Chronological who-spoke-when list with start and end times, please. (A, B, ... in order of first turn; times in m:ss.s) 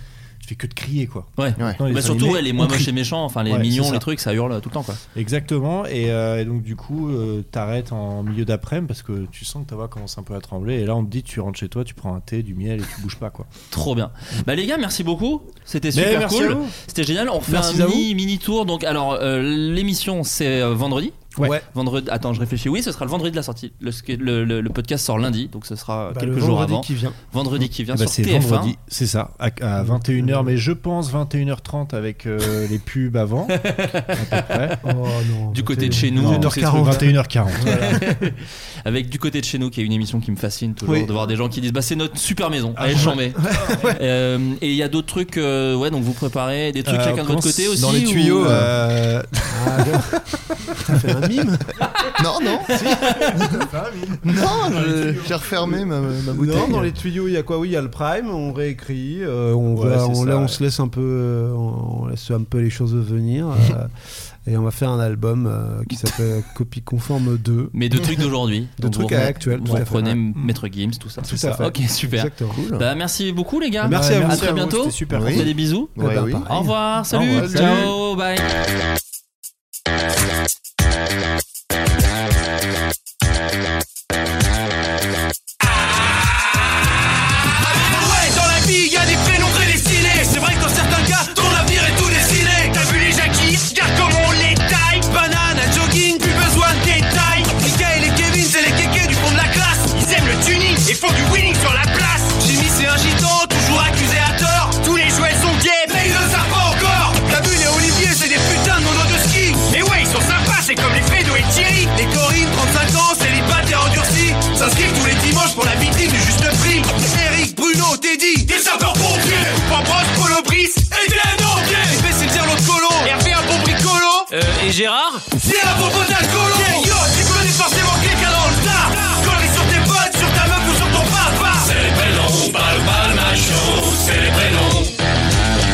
0:00.4-0:04.1 A
0:01.4-0:05.0 B
0:05.2-0:13.5 A
0:13.7-0:28.8 B
0:15.9-0:16.7 A
0:17.5-0:18.1 C
0:21.4-0:21.6 C
0:26.1-0:27.2 C
0:27.6-0:34.8 A
0:29.8-0:30.6 C
0:33.5-0:34.8 B
0:34.8-0:38.2 C
0:35.5-0:48.6 B
0:35.8-0:38.0 A
0:40.8-0:41.3 C
0:42.8-0:43.9 A
0:43.0-0:44.0 C
0:46.8-0:50.2 A
0:47.8-0:48.7 D
0:49.5-0:50.2 C
0:50.9-0:51.7 C
0:52.0-0:53.3 D
0:52.7-0:55.7 A
0:54.2-0:56.9 D
0:56.3-1:03.9 C
0:59.7-1:00.6 A
1:04.4-1:07.7 C
1:07.7-1:15.9 B
1:08.8-1:10.2 C
1:09.6-1:10.6 A
1:11.2-1:12.8 C
1:13.8-1:14.6 C
1:13.8-1:15.6 A
1:15.1-1:16.5 D
1:16.0-1:16.8 C
1:16.5-1:18.5 B
1:17.1-1:18.0 A
1:17.4-1:17.9 D
1:27.6-2:14.9 E